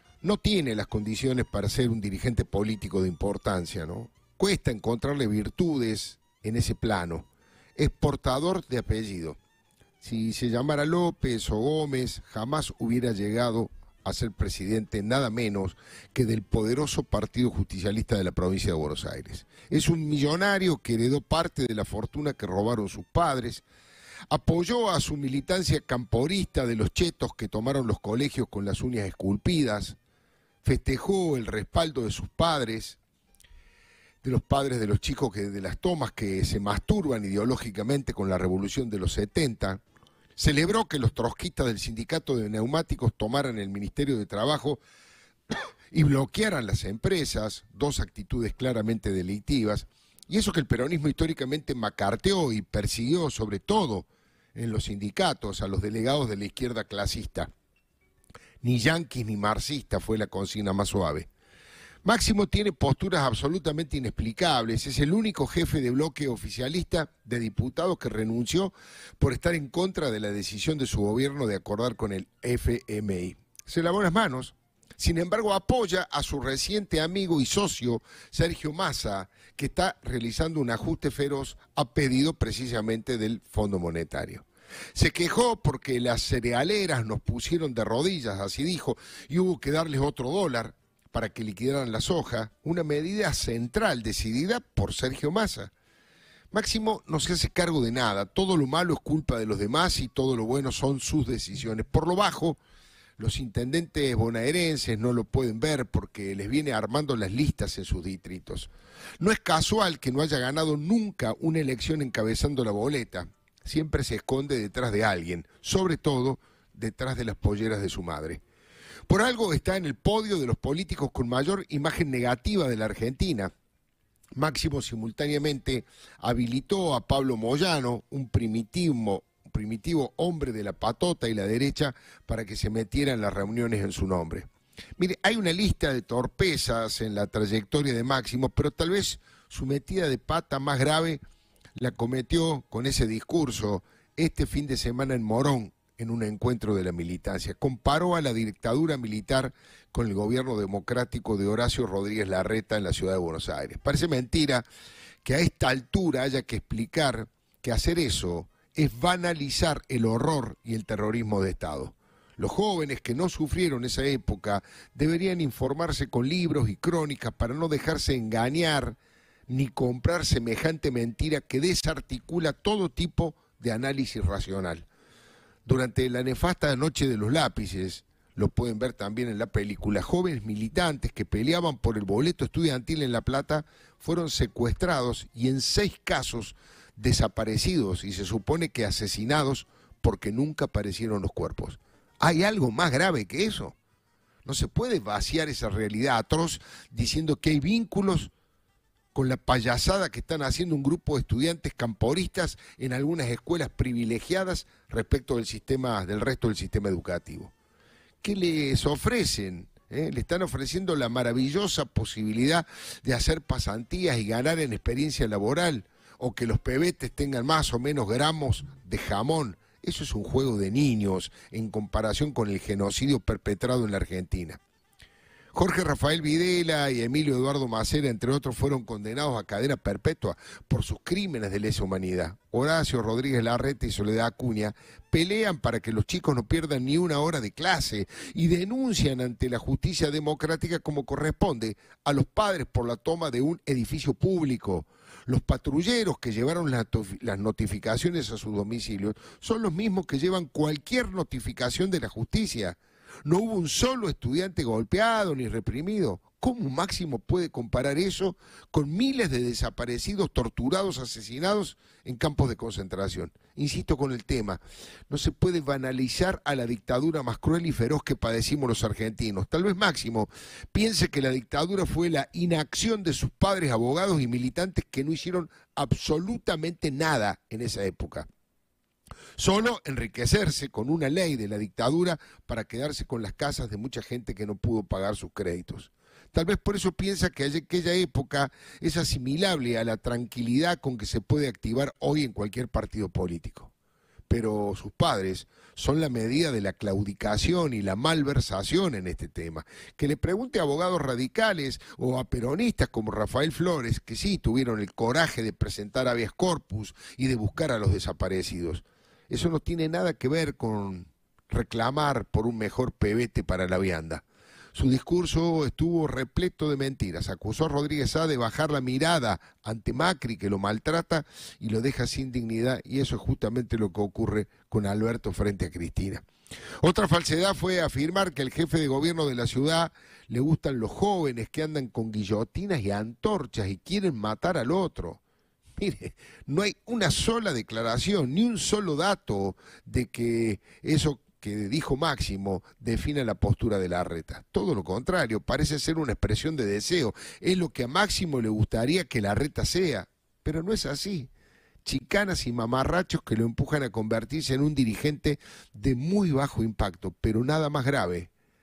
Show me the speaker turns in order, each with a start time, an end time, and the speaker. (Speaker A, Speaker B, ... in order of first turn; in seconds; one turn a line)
Speaker A: 0.2-9.4
Speaker A: 10.0-23.6
Speaker A: 24.3-30.0
Speaker A: 30.6-33.0
Speaker A: 34.2-39.8
Speaker A: 40.4-44.8
Speaker A: 45.9-57.5
Speaker A: 58.6-61.3
Speaker A: 62.0-95.7
Speaker A: 96.5-102.6
Speaker A: 103.2-118.4
Speaker A: 119.1-123.5
Speaker A: 124.3-134.5
Speaker A: 135.0-141.2
Speaker A: 141.8-154.7
Speaker A: 155.2-169.0
Speaker A: 169.5-174.9
Speaker A: 175.7-193.8
Speaker A: 194.4-198.3
Speaker A: 199.1-207.5
Speaker A: 208.2-224.6
Speaker A: 225.5-278.3
Speaker A: 279.4-293.7
Speaker A: 294.3-326.2
Speaker A: 326.8-335.2
Speaker A: 335.8-351.3
Speaker A: 351.8-358.3